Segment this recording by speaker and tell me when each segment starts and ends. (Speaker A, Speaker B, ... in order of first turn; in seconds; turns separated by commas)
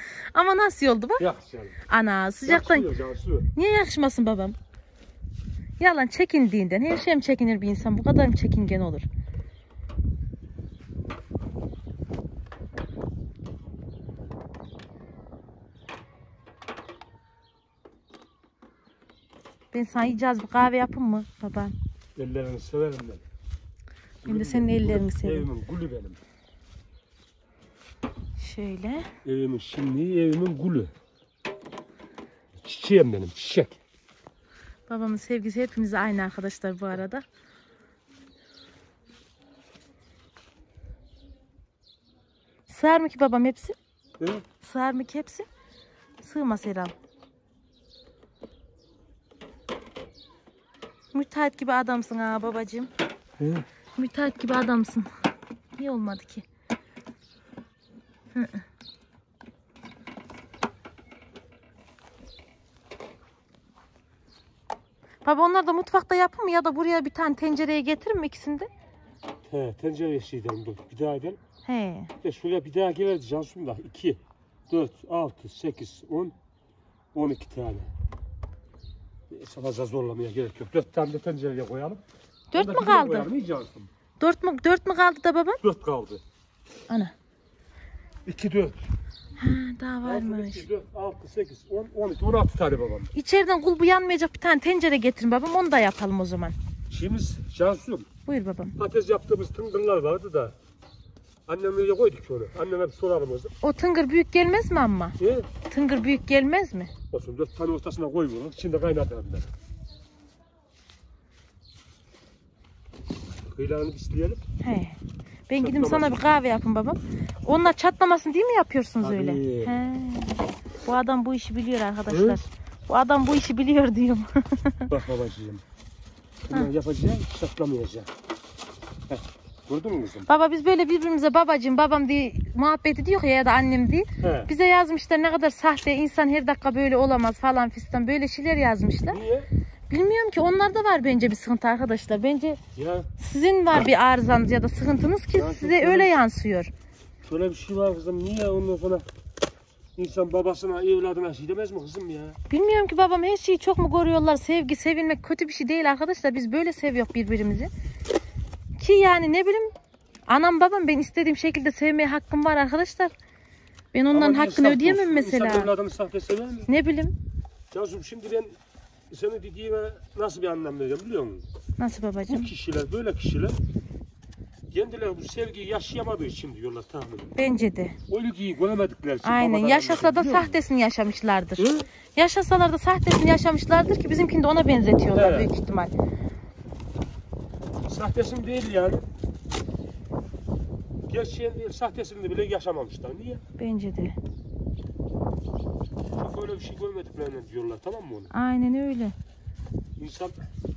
Speaker A: 0.3-1.3, Speaker B: 1.2-1.8, Speaker A: 1.9-2.9, Speaker B: 2.5-3.5, Speaker A: 3.5-4.6, Speaker A: 5.8-9.1, Speaker A: 19.7-21.8, Speaker B: 22.2-23.2, Speaker B: 24.2-26.2, Speaker A: 24.2-25.5, Speaker A: 28.4-29.1, Speaker B: 29.2-30.9, Speaker B: 32.6-33.8, Speaker A: 34.9-37.2, Speaker A: 42.7-43.8, Speaker B: 44.2-44.4, Speaker A: 44.6-45.5, Speaker A: 46.2-46.9, Speaker A: 51.1-52.9, Speaker B: 53.4-53.6, Speaker A: 54.0-55.1, Speaker A: 55.8-56.5, Speaker A: 58.4-58.6, Speaker A: 65.2-68.7, Speaker B: 69.5-71.4, Speaker A: 71.7-72.1, Speaker B: 72.2-76.3, Speaker B: 77.1-77.9, Speaker B: 79.3-82.0, Speaker A: 82.5-83.3, Speaker B: 82.5-83.9, Speaker A: 84.2-85.6, Speaker B: 85.6-86.2, Speaker A: 86.9-87.1, Speaker B: 88.3-88.9, Speaker A: 89.4-90.7, Speaker B: 90.0-93.1, Speaker A: 93.1-96.6, Speaker B: 96.9-98.1, Speaker A: 98.3-98.8, Speaker B: 98.8-100.5, Speaker B: 101.5-103.5, Speaker A: 103.6-106.9, Speaker B: 105.2-105.5, Speaker B: 107.1-109.5, Speaker B: 113.5-114.4, Speaker A: 114.6-115.0, Speaker A: 115.5-124.9, Speaker B: 115.6-116.2, Speaker B: 119.0-119.8, Speaker B: 122.1-122.4, Speaker B: 124.9-125.6, Speaker B: 126.5-128.1, Speaker B: 129.1-130.3, Speaker A: 130.3-139.2, Speaker B: 134.2-134.5, Speaker B: 139.1-139.5, Speaker A: 139.9-142.6, Speaker B: 142.8-143.1, Speaker A: 143.2-146.7, Speaker B: 145.3-146.2, Speaker B: 147.2-149.1, Speaker B: 150.0-152.4, Speaker A: 152.5-157.7, Speaker A: 158.8-159.7, Speaker A: 160.3-163.1, Speaker A: 163.9-165.7, Speaker B: 164.1-166.7, Speaker A: 166.7-167.2, Speaker B: 167.7-168.6, Speaker B: 169.1-171.5, Speaker A: 171.8-172.5, Speaker B: 172.3-173.6, Speaker B: 174.7-177.3, Speaker A: 177.4-178.0, Speaker B: 178.1-180.6, Speaker A: 179.2-185.9, Speaker B: 181.6-181.9, Speaker B: 185.1-185.5, Speaker B: 187.9-189.1, Speaker B: 191.1-193.4, Speaker A: 193.6-194.2, Speaker B: 196.2-198.3, Speaker A: 198.3-199.2, Speaker B: 200.0-200.4